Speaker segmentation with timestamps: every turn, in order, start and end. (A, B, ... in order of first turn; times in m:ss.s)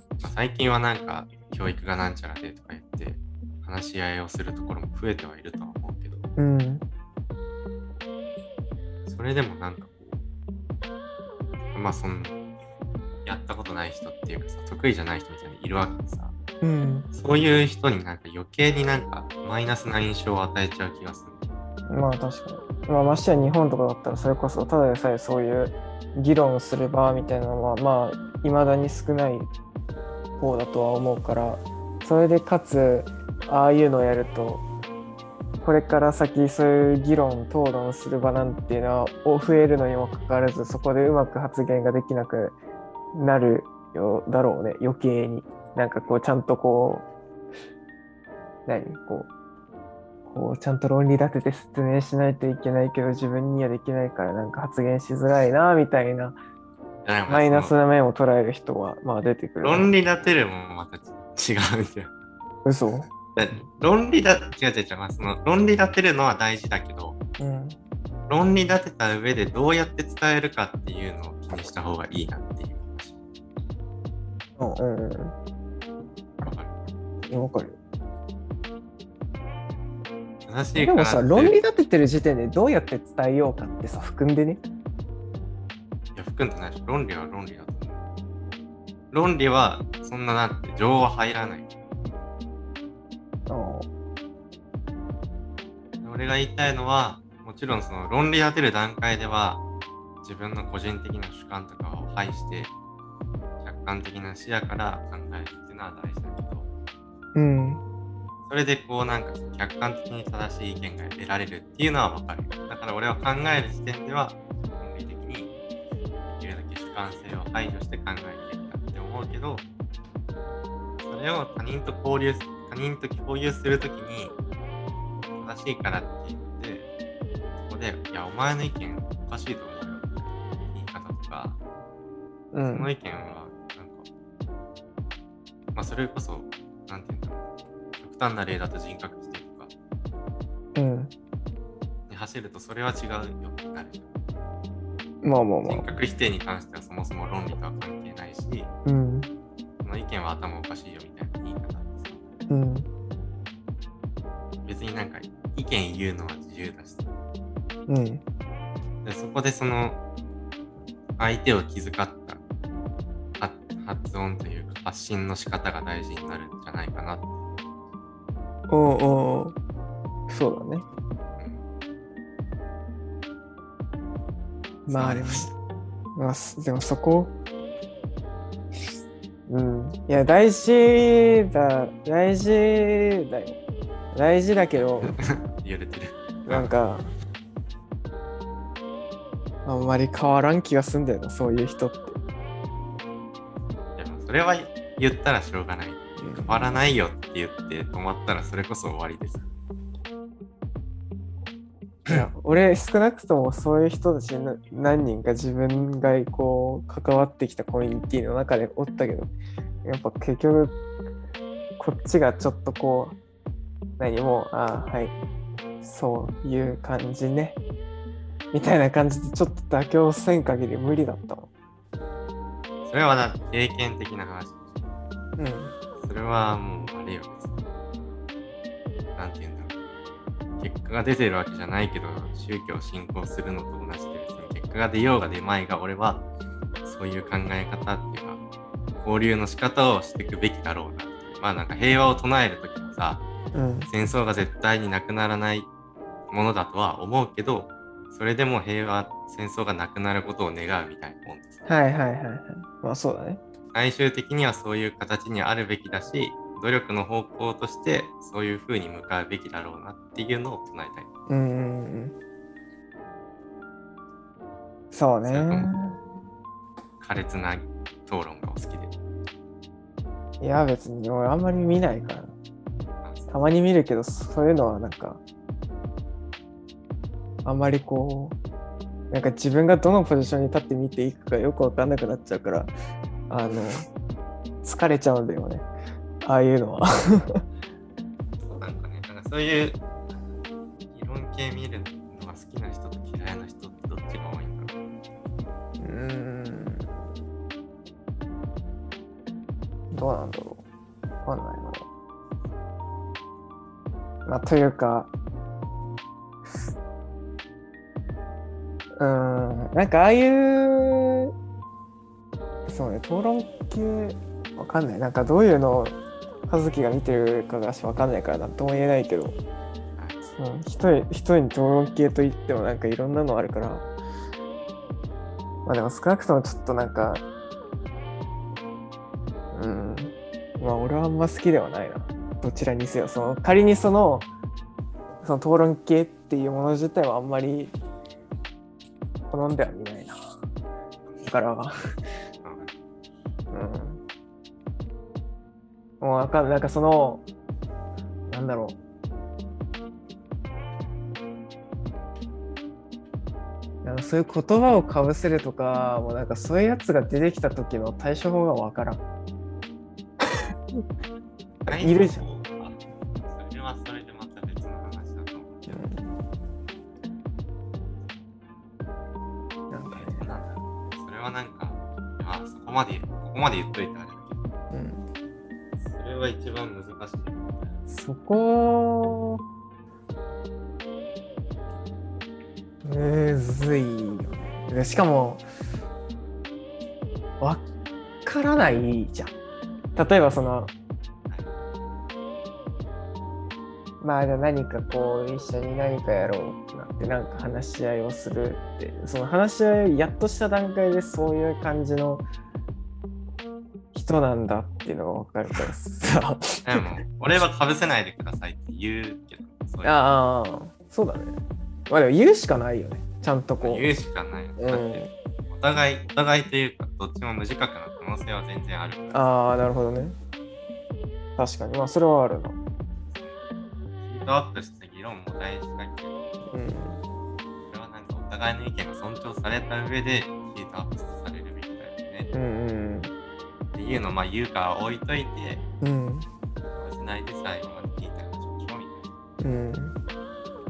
0:00.2-0:06.3 A
0:06.4-0:06.8 B
0:09.0-0:10.2 A
0:11.7-0:12.4 A
0:13.2-0:16.3 A
0:16.6-0:17.1 B
0:17.1-0:21.4 A
0:21.9-0:29.5 B
0:30.4-0:34.6 B
0:35.6-0:42.6 B
0:43.1-0:47.1 B
0:48.6-0:49.3 B
0:50.3-0:56.4 B
0:57.0-0:57.7 A
0:57.3-0:59.9 B
0:59.6-1:02.1 A
1:02.6-1:03.1 B
1:03.3-1:07.2 A
1:07.4-1:07.8 B
1:08.3-1:13.2 A
1:14.6-1:15.3 B
1:16.4-1:16.7 A
1:17.3-1:17.8 B
1:20.4-1:21.6 A
1:20.8-1:24.6 B
1:26.1-1:28.0 A
1:29.1-1:31.7 A
1:33.5-1:33.9 B
1:36.0-1:39.6 A
1:40.2-1:42.7 A
1:43.6-1:46.7 A
1:47.3-1:47.8 B
1:48.5-1:55.5 A
1:56.3-1:59.6 A
2:01.0-2:04.3 A
2:05.4-2:06.9 A
2:07.6-2:11.6 A
2:12.5-2:12.9 B
2:12.6-2:14.1 A
2:15.7-2:17.4 A
2:18.0-2:19.7 A
2:20.7-2:21.1 B
2:22.1-2:24.2 A
2:25.2-2:25.9 B
2:25.6-2:28.7 A
2:28.8-2:29.3 B
2:29.8-2:32.2 A
2:32.5-2:32.9 B
2:34.6-2:37.1 A
2:37.9-2:38.2 B
2:39.0-2:40.0 A
2:41.2-2:42.4 A
2:43.4-2:47.3 A
2:48.7-2:49.6 B
2:50.3-2:50.8 B
2:54.9-2:55.5 B
2:54.9-2:55.5 A
2:56.2-2:57.3 B
2:59.5-3:03.6 B
3:04.1-3:05.2 B
3:05.0-3:06.7 A
3:06.4-3:07.1 B
3:09.6-3:12.2 B
3:14.0-3:19.4 A
3:16.2-3:16.7 B
3:22.1-3:29.3 B
3:29.8-3:30.8 B
3:31.8-3:33.2 B
3:34.0-3:35.2 B
3:35.8-3:37.6 B
3:38.5-3:41.5 B
3:42.8-3:44.8 A
3:45.4-3:45.7 B
3:46.0-3:47.6 A
3:49.2-3:49.7 A
3:50.6-3:56.2 A
3:56.8-3:58.4 A
3:59.0-4:03.2 A
4:03.5-4:03.9 B
4:03.9-4:05.7 A
4:06.3-4:11.7 A
4:11.7-4:13.4 B
4:13.7-4:21.1 A
4:21.3-4:22.1 B
4:24.9-4:26.0 B
4:25.2-4:25.7 A
4:27.0-4:29.0 A
4:30.4-4:32.3 B
4:33.0-4:33.3 A
4:33.3-4:35.2 B
4:37.4-4:38.4 B
4:39.1-4:42.7 B
4:43.3-4:43.8 B
4:44.6-4:45.7 B
4:46.2-4:47.4 B
4:48.4-4:49.8 A
4:50.9-4:54.8 A
4:55.8-4:56.9 B
4:59.9-5:00.6 B
5:01.2-5:01.8 B
5:04.2-5:05.1 B
5:09.0-5:11.3 B
5:12.7-5:19.4 B
5:20.2-5:23.9 B
5:25.6-5:27.2 B
5:29.5-5:34.3 B
5:35.2-5:37.7 B
5:39.3-5:40.2 B
5:41.2-5:41.7 B
5:42.4-5:42.7 A
5:43.5-5:44.0 B
5:46.0-5:47.2 B
5:48.3-5:48.8 B
5:53.8-5:59.0 B
6:01.6-6:05.8 A
6:01.7-6:02.2 B
6:05.7-6:06.1 B
6:09.7-6:10.3 B
6:09.9-6:14.4 A
6:14.7-6:15.1 B
6:15.8-6:17.8 A
6:17.9-6:19.4 B
6:22.8-6:25.4 B
6:27.4-6:27.7 B
6:28.2-6:29.3 B
6:30.0-6:30.7 B
6:34.0-6:42.2 B
6:43.9-6:46.8 B
6:46.6-6:49.9 A
6:49.8-6:51.4 B
6:51.9-6:53.9 B
6:53.6-6:59.2 A
6:54.6-6:55.1 B
6:59.1-7:00.2 B
7:01.4-7:02.6 B
7:04.0-7:06.3 A
7:06.5-7:07.0 B
7:07.7-7:12.3 A
7:12.3-7:13.1 B
7:13.7-7:15.6 A
7:15.8-7:16.3 B
7:16.7-7:19.1 A
7:19.4-7:20.0 B